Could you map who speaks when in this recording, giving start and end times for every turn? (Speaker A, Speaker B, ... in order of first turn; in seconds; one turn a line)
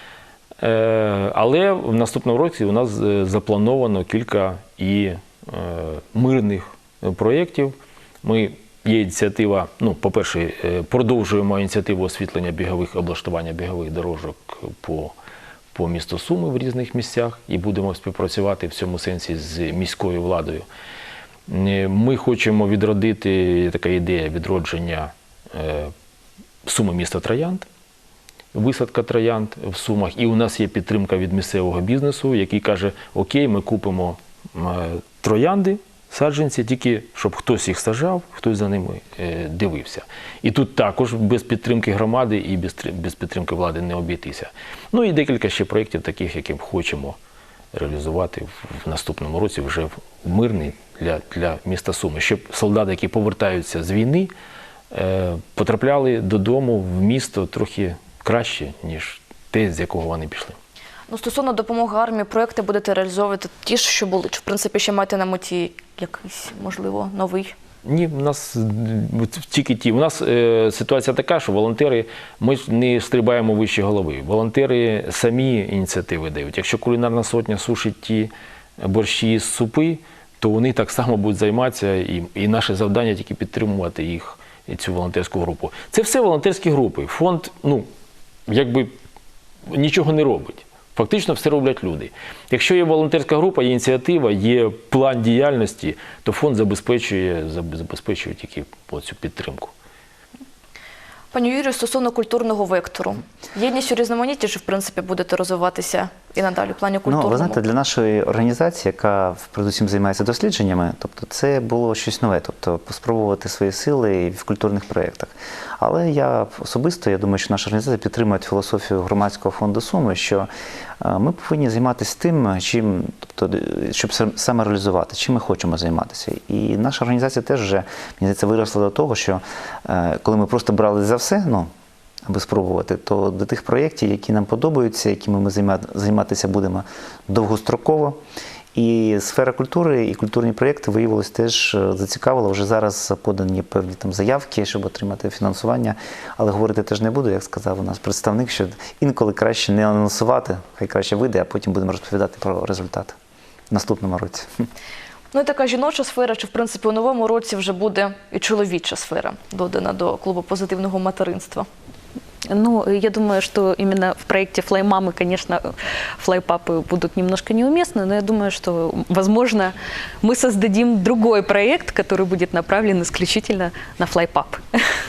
Speaker A: 0.6-15.1
Speaker A: 15.7-20.6
Speaker A: 21.5-25.9
Speaker A: 26.6-27.7
Speaker A: 28.5-47.2
Speaker A: 47.7-54.3
Speaker A: 54.9-60.6
Speaker B: 61.1-67.5
Speaker A: 67.8-87.9
Speaker A: 88.5-89.0
Speaker A: 89.7-99.7
Speaker B: 101.3-107.6
Speaker C: 107.1-120.5
Speaker C: 121.0-131.7
Speaker C: 132.3-138.2
Speaker C: 138.8-153.2
Speaker C: 153.7-154.5
Speaker B: 155.3-161.7
Speaker D: 162.5-174.8